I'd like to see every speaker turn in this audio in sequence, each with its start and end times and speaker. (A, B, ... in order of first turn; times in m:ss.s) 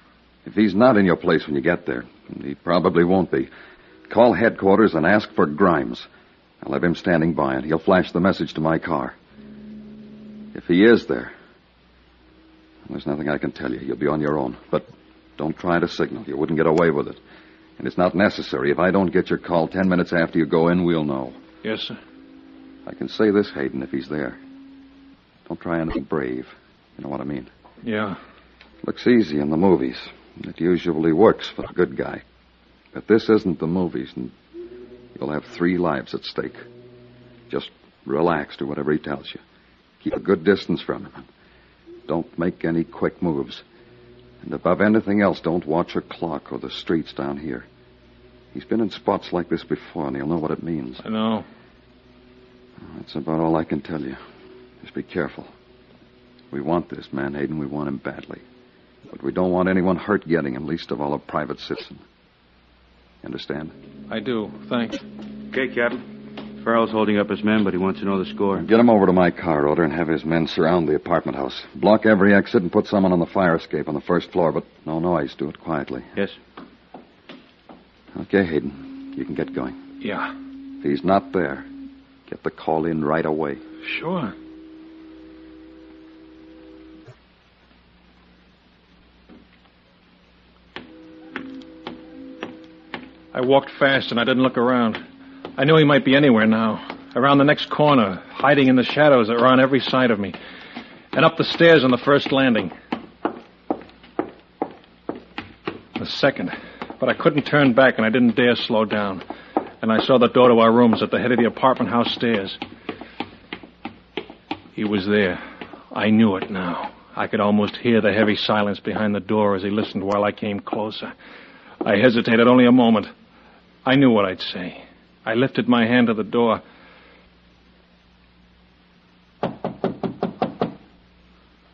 0:00.4-0:03.5 A
0:04.1-0:06.1 A
0:06.6-0:09.2 A
0:10.5-0:11.3 A
0:12.8-0:14.9 A
0:15.4-0:17.2 A
0:17.8-0:21.4 A
0:21.6-0:22.0 B
0:22.8-0:24.4 A
0:25.4-0:27.5 A
0:27.8-0:28.2 B
0:28.8-0:32.2 A
0:32.9-0:34.3 A
0:35.2-0:36.6 A
0:37.5-0:39.4 A
0:40.0-0:41.2 A
0:42.1-0:43.6 A
0:44.4-0:47.7 A
0:48.5-0:51.0 A
0:51.0-0:51.4 B
0:52.8-0:54.2 A
0:54.8-0:55.5 A
0:56.5-0:58.4 A
0:59.1-1:02.0 A
1:03.2-1:03.7 A
1:04.1-1:05.0 B
1:05.5-1:06.0 C
1:06.6-1:08.6 C
1:08.6-1:16.1 A
1:18.1-1:19.8 A
1:20.0-1:20.3 B
1:20.8-1:21.7 A
1:22.3-1:23.6 A
1:23.8-1:24.3 B
1:33.3-1:35.0 B
1:35.6-1:40.4 B
1:41.1-1:42.7 B
1:46.0-1:49.2 B
1:49.8-1:52.6 B
1:54.7-2:01.1 B
2:01.8-2:03.1 B
2:03.8-2:06.6 B